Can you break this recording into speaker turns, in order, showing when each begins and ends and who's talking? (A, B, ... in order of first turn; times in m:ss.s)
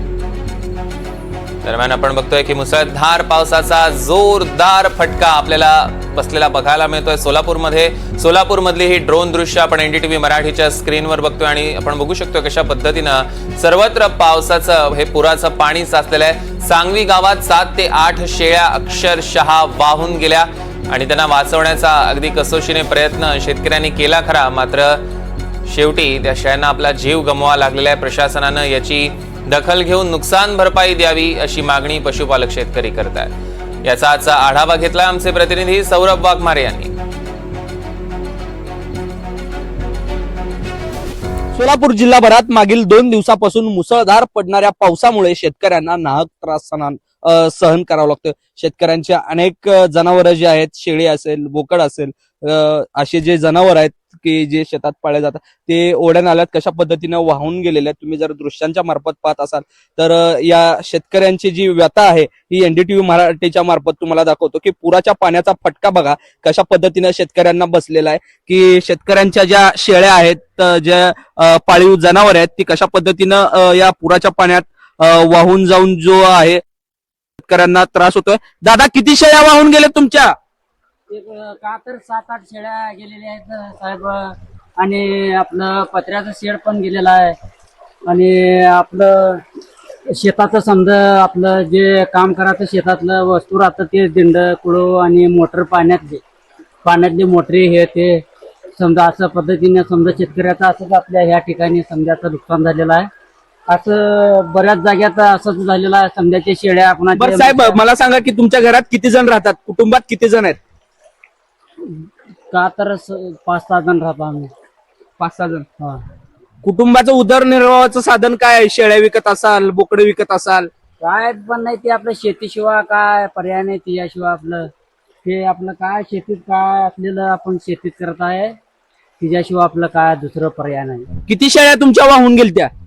0:01.6-0:25.0 A
0:25.6-0:36.9 A
0:41.5-1:16.6 B
1:17.4-1:20.3 B
1:21.1-1:27.4 C
1:28.1-1:29.4 C
1:30.0-1:36.2 C
1:36.8-1:38.2 C
1:38.8-1:43.1 C
1:43.7-1:47.8 C
1:47.1-1:50.6 B
1:51.8-1:54.5 C
1:55.2-1:55.6 B
1:56.6-2:00.7 B
2:01.0-2:04.7 C
2:05.2-2:08.6 C
2:09.2-2:11.1 C
2:11.3-2:12.7 B